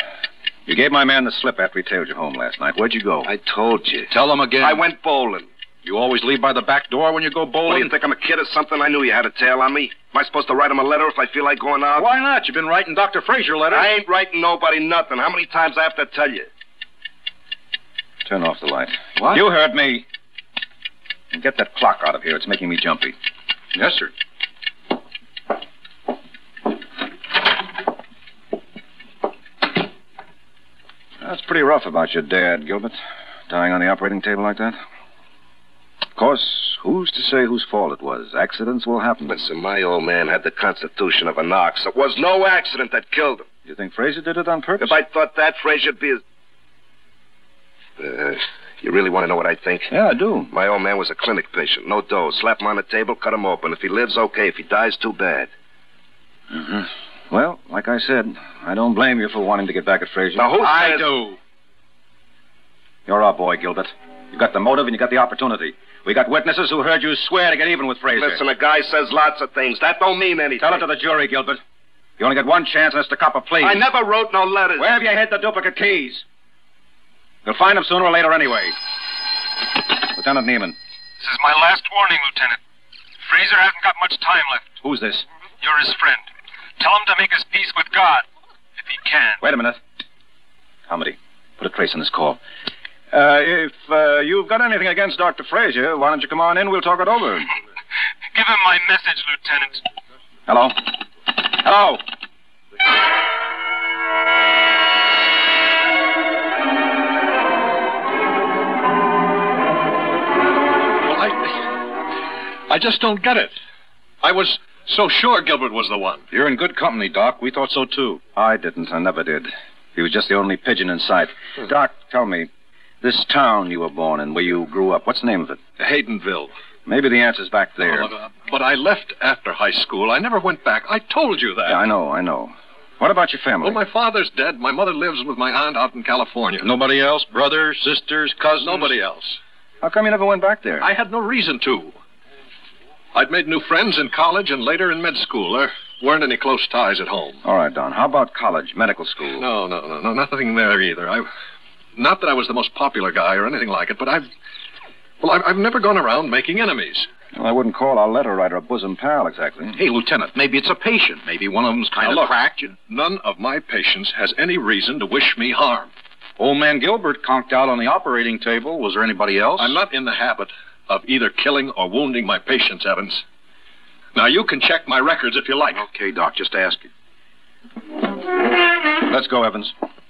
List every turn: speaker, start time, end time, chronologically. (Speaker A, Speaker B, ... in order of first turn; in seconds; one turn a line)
Speaker A: 0.7-3.3
Speaker B: 3.2-5.5
Speaker C: 4.1-4.8
Speaker C: 5.8-7.9
Speaker B: 7.7-12.1
Speaker C: 12.0-13.9
Speaker B: 13.7-16.5
Speaker A: 18.2-20.1
Speaker A: 21.3-23.1
Speaker C: 23.8-24.1
Speaker A: 31.2-34.8
Speaker A: 36.1-39.4
Speaker B: 39.3-43.5
Speaker A: 43.6-45.0
Speaker B: 44.8-46.2
Speaker B: 48.0-49.9
Speaker A: 49.9-50.5
Speaker B: 50.5-55.5
Speaker A: 56.5-61.4
Speaker B: 60.4-61.1
Speaker A: 63.1-68.4
Speaker B: 68.2-70.8
Speaker A: 70.6-71.6
Speaker A: 72.2-73.9
Speaker B: 73.6-74.9
Speaker A: 74.8-76.2
Speaker A: 77.5-78.8
Speaker A: 79.9-80.8
Speaker D: 81.2-82.6
Speaker D: 83.2-84.7
Speaker A: 84.8-85.2
Speaker D: 85.6-86.3
Speaker D: 86.8-88.2
Speaker D: 88.8-89.4
Speaker A: 89.4-89.8
Speaker A: 90.9-92.4
Speaker A: 93.1-97.5
Speaker D: 98.3-99.8
Speaker A: 100.5-102.0
Speaker E: 111.0-111.6
Speaker E: 112.7-113.5
Speaker E: 114.2-116.3
Speaker C: 116.3-118.2
Speaker A: 118.3-122.5
Speaker A: 123.0-125.6
Speaker E: 125.8-126.5
Speaker A: 126.9-128.1
Speaker E: 127.8-131.8
Speaker A: 131.7-133.8
Speaker E: 133.6-136.7
Speaker C: 136.6-138.9
Speaker E: 138.6-139.4
Speaker A: 139.8-140.9
Speaker E: 140.8-142.0
Speaker E: 143.2-147.4
Speaker A: 147.4-149.5
Speaker E: 149.4-151.3
Speaker E: 152.0-154.3
Speaker E: 155.2-157.1
Speaker A: 157.3-159.8
Speaker C: 159.8-162.8
Speaker E: 162.0-162.3
Speaker E: 162.9-165.9
Speaker C: 166.4-169.8
Speaker E: 169.6-173.2
Speaker E: 174.2-175.8
Speaker C: 175.7-176.9
Speaker A: 179.1-179.7